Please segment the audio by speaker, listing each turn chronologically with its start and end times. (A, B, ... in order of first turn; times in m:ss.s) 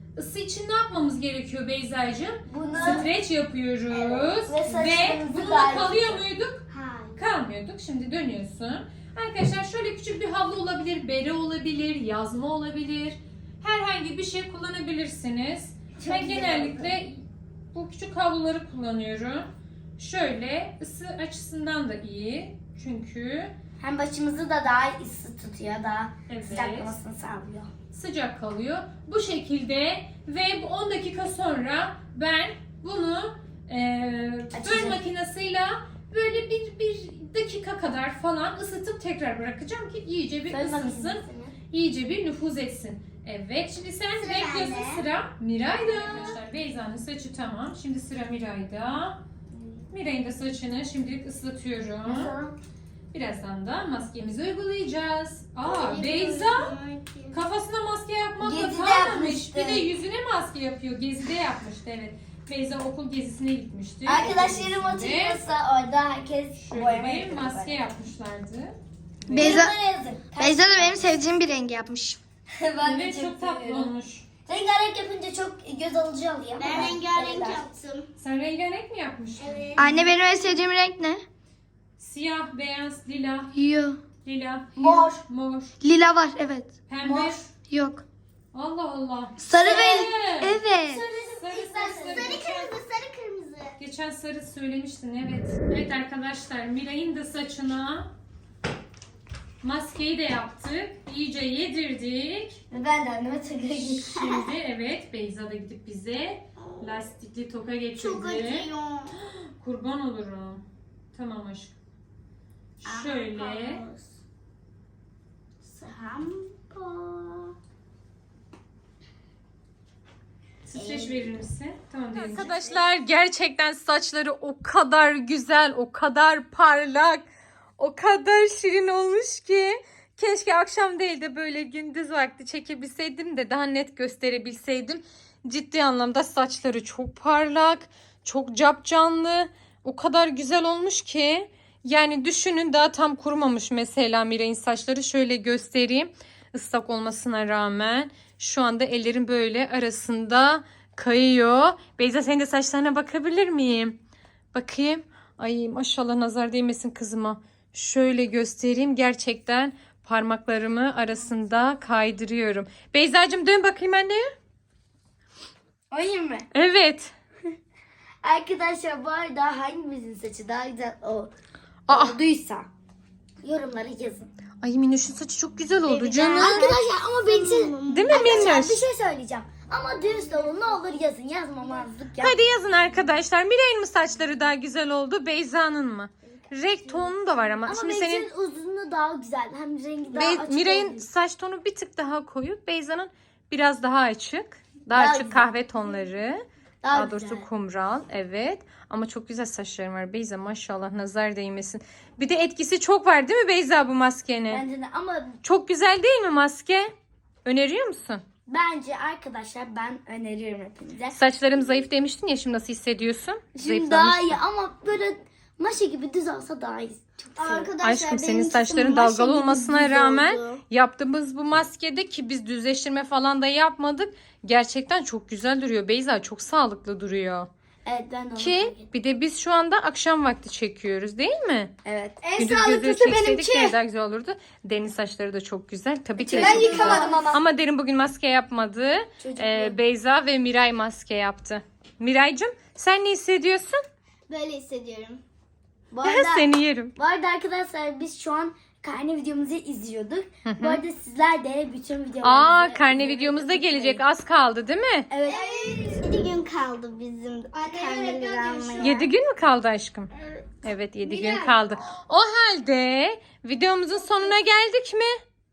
0:00.2-0:06.6 A
0:02.5-0:03.1 B
0:02.7-0:03.1 C
0:03.9-0:06.2 B
0:06.7-0:07.2 C
0:07.2-0:23.5 A
0:16.0-0:17.0 B
0:23.8-0:27.7 B
0:26.3-0:26.9 A
0:27.9-0:49.2 A
0:34.5-0:35.0 B
0:40.5-0:41.6 B
0:44.2-0:45.0 C
0:49.5-0:49.8 B
0:49.9-0:52.3 A
0:52.0-0:52.6 B
0:53.1-0:56.7 A
0:55.6-0:57.4 C
0:57.3-1:05.4 A
0:58.4-0:59.9 B
1:04.0-1:07.9 B
1:06.5-1:09.7 A
1:09.3-1:11.3 B
1:09.3-1:09.7 D
1:10.4-1:12.2 D
1:12.6-1:13.9 B
1:12.8-1:14.3 A
1:14.5-1:17.7 B
1:16.6-1:18.1 C
1:18.2-1:19.8 A
1:19.4-1:20.0 C
1:19.8-1:21.2 D
1:22.0-1:23.5 A
1:23.6-1:24.0 D
1:24.2-1:25.8 A
1:24.8-1:25.2 B
1:25.8-1:26.7 D
1:26.9-1:27.5 A
1:27.0-1:27.4 B
1:27.7-1:28.0 D
1:28.5-1:30.6 A
1:29.4-1:31.0 D
1:29.6-1:30.1 B
1:29.6-1:29.9 C
1:30.7-1:32.6 B
1:31.3-1:32.7 A
1:31.5-1:33.8 C
1:33.8-1:38.1 A
1:39.6-1:42.6 A
1:42.7-1:44.4 B
1:43.8-1:51.8 A
1:48.0-1:49.2 C
1:52.8-1:53.8 A
1:52.8-1:54.1 C
1:55.7-1:57.5 C
2:00.7-2:07.2 A
2:00.9-2:01.2 C
2:02.2-2:02.8 B
2:02.3-2:02.8 C
2:07.8-2:34.0 A
2:34.5-2:44.3 A
2:45.9-2:46.5 B
2:46.5-2:47.1 A
2:48.2-2:51.3 B
2:51.9-2:52.2 A
2:51.9-2:52.7 B
2:53.4-2:54.3 B
2:54.6-2:56.8 A
2:55.9-3:02.4 B
2:56.3-2:58.6 C
2:57.9-2:58.8 A
3:00.0-3:00.8 C
3:02.2-3:08.3 A
3:07.6-3:11.0 B
3:10.1-3:24.6 A
3:14.9-3:15.5 B
3:16.8-3:17.4 B
3:24.5-3:25.4 B
3:25.4-3:26.9 A
3:27.4-3:28.2 A
3:28.5-3:31.2 B
3:31.2-3:34.4 A
3:33.6-3:37.8 B
3:37.4-3:40.6 C
3:37.8-3:47.5 A
3:47.8-3:48.9 B
3:48.4-3:51.7 A
3:51.8-3:52.3 B
3:52.2-3:53.8 D
3:52.4-4:03.8 A
3:56.2-3:57.4 B
3:56.4-3:57.4 D
3:56.5-3:57.1 C
3:59.2-3:59.8 B
4:04.3-4:05.2 C
4:05.9-4:14.0 B
4:06.0-4:06.9 A
4:10.4-4:10.8 A
4:12.2-4:15.1 A
4:15.1-4:16.0 B
4:15.2-4:19.1 C
4:17.6-4:19.0 B
4:18.8-4:20.1 A
4:20.2-4:20.4 C
4:20.6-4:25.1 A
4:21.1-4:21.5 C